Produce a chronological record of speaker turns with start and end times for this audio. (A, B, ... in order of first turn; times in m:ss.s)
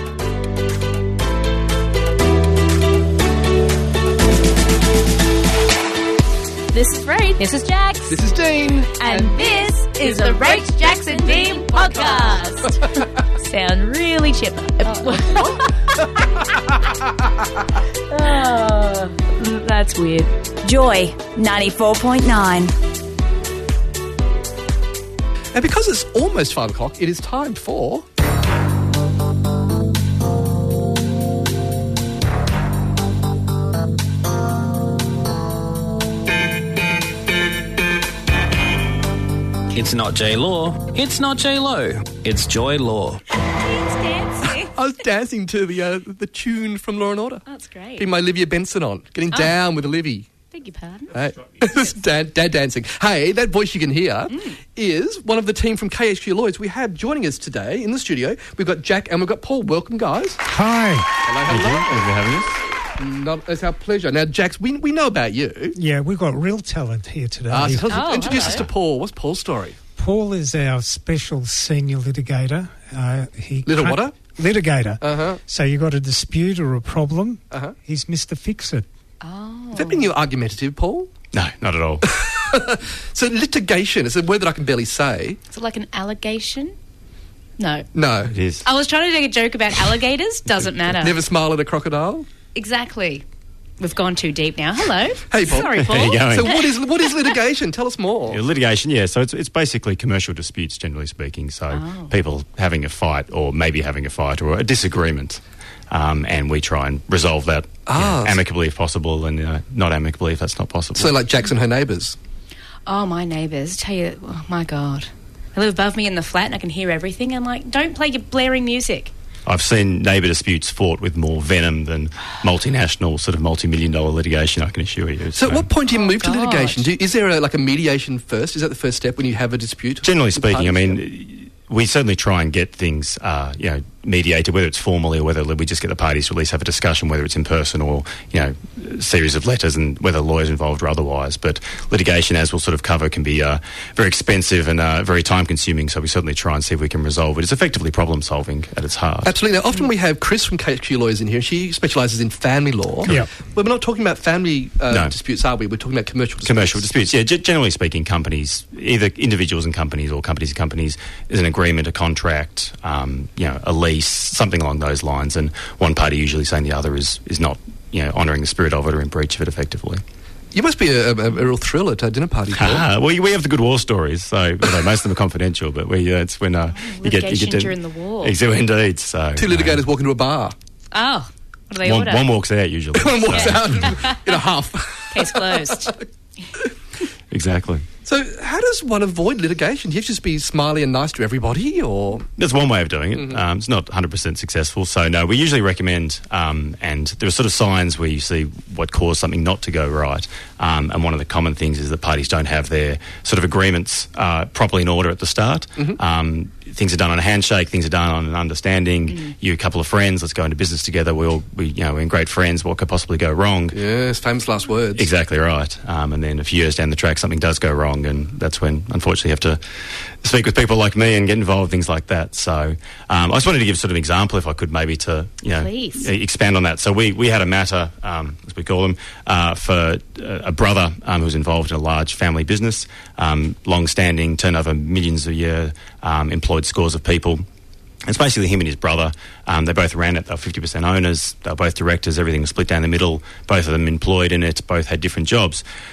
0:06.7-0:08.2 A
0:08.1-0:09.3 B
0:09.0-0:15.9 A
0:18.1-0:22.7 A
0:25.5-0:28.0 B
0:39.7-0:43.2 C
0:43.6-0:44.7 A
0:44.7-0:47.4 B
0:47.5-0:48.1 A
0:48.0-0:50.3 B
0:49.3-0:49.6 A
0:50.5-0:51.1 A
0:51.1-1:00.4 B
0:54.3-0:54.6 A
1:00.4-1:01.1 D
1:01.2-1:02.0 B
1:01.5-1:02.6 E
1:03.0-1:05.8 B
1:05.8-1:08.1 D
1:07.5-1:09.8 B
1:07.9-1:08.7 A
1:10.0-1:18.8 D
1:13.6-1:14.1 B
1:15.0-1:15.4 B
1:19.2-1:20.1 A
1:19.7-1:21.1 B
1:21.3-1:22.1 E
1:22.0-1:25.4 B
1:25.5-1:26.7 A
1:27.6-1:27.9 A
1:27.9-1:28.3 B
1:28.3-1:28.7 E
1:28.6-1:31.2 A
1:31.0-1:32.3 B
1:32.5-1:33.2 A
1:33.8-1:37.3 A
1:35.3-1:38.4 B
1:35.9-1:36.6 E
1:38.3-1:51.1 E
1:41.7-1:42.1 A
1:47.9-1:48.4 B
1:51.0-1:52.2 B
1:52.8-1:59.1 A
1:59.4-2:05.7 E
2:05.3-2:11.0 B
2:05.9-2:06.9 A
2:10.0-2:29.3 E
2:29.2-2:36.8 B
2:34.9-2:35.1 E
2:36.4-2:50.0 E
2:50.5-2:52.8 B
2:52.5-2:59.8 E
2:56.7-2:58.4 A
2:59.4-3:00.5 B
3:00.9-3:02.3 A
3:01.8-3:04.0 E
3:02.9-3:06.0 B
3:03.3-3:04.3 A
3:05.1-3:05.9 A
3:07.3-3:07.8 E
3:08.0-3:12.3 B
3:12.4-3:33.8 E
3:13.1-3:13.4 B
3:33.7-3:35.1 B
3:34.9-3:39.6 E
3:40.2-3:57.4 E
3:45.5-3:46.1 A
3:58.0-4:05.6 E